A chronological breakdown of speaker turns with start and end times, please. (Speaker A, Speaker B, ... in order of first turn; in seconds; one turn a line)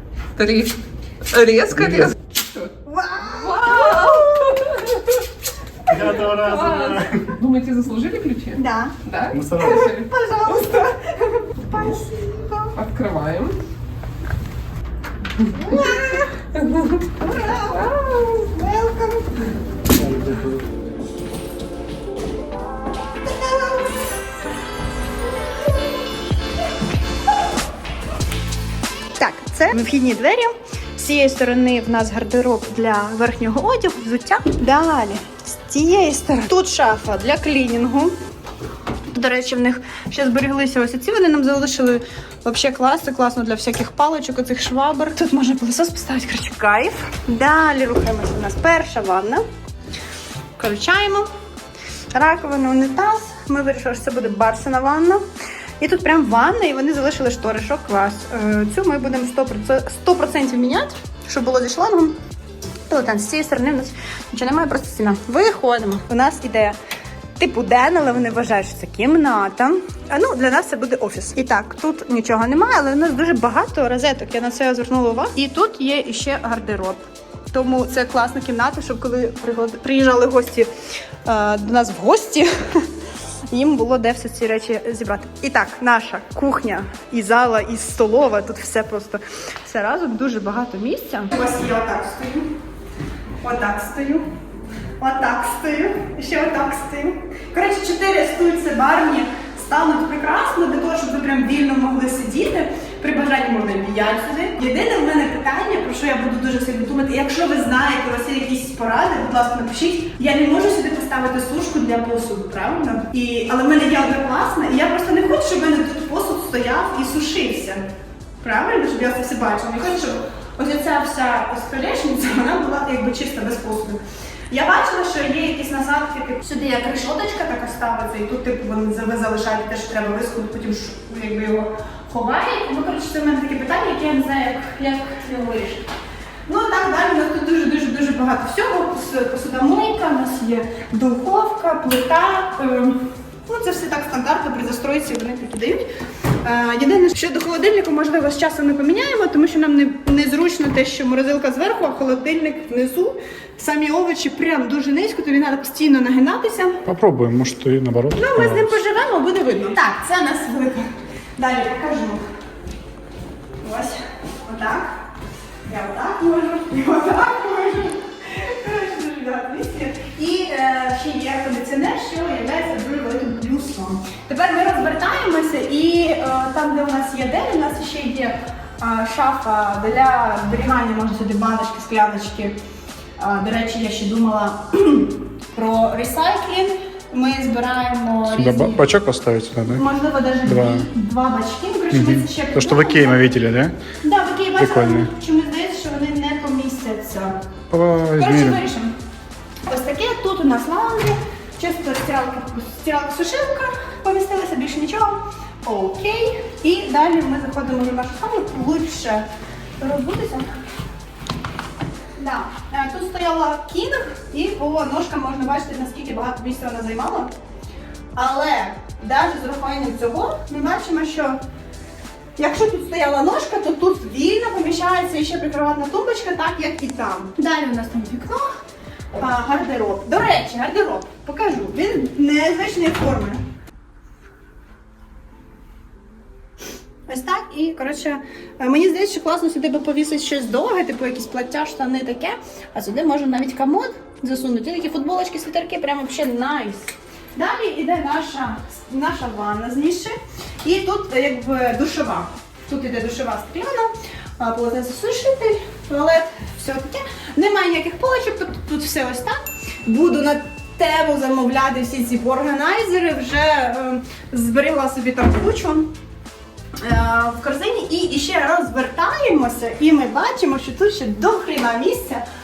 Speaker A: 0.4-2.7
Speaker B: 1.7-2.1
Speaker C: 2.8-4.9
Speaker A: 3.3-5.0
Speaker B: 5.9-7.4
Speaker A: 6.3-10.1
Speaker C: 8.6-9.0
Speaker B: 9.3-9.9
Speaker C: 9.6-12.8
Speaker A: 12.8-13.6
Speaker C: 15.5-19.4
Speaker B: 20.0-20.7
Speaker C: 23.2-24.0
Speaker C: 29.2-38.2
Speaker C: 39.1-49.4
Speaker C: 50.6-51.3
Speaker C: 52.1-55.2
Speaker C: 55.8-62.2
Speaker C: 62.9-66.8
Speaker C: 67.4-80.7
Speaker C: 81.2-82.9
Speaker C: 83.5-92.5
Speaker C: 93.4-94.3
Speaker C: 95.0-117.8
Speaker C: 118.4-135.9
Speaker C: 136.5-145.9
Speaker C: 146.4-156.8
Speaker B: 156.8-158.8
Speaker C: 158.2-162.2
Speaker C: 163.6-164.9
Speaker C: 165.7-182.6
Speaker C: 183.2-188.8
Speaker B: 188.3-189.8
Speaker C: 189.7-193.3
Speaker B: 190.4-190.9
Speaker B: 191.9-193.8
Speaker C: 194.0-197.4
Speaker B: 194.6-195.1
Speaker B: 197.7-198.6
Speaker C: 198.2-198.9
Speaker C: 199.7-209.3
Speaker C: 209.8-210.5
Speaker C: 212.2-217.3
Speaker C: 218.2-221.4
Speaker C: 222.4-228.5
Speaker C: 229.2-233.4
Speaker C: 237.1-265.9
Speaker C: 266.8-272.2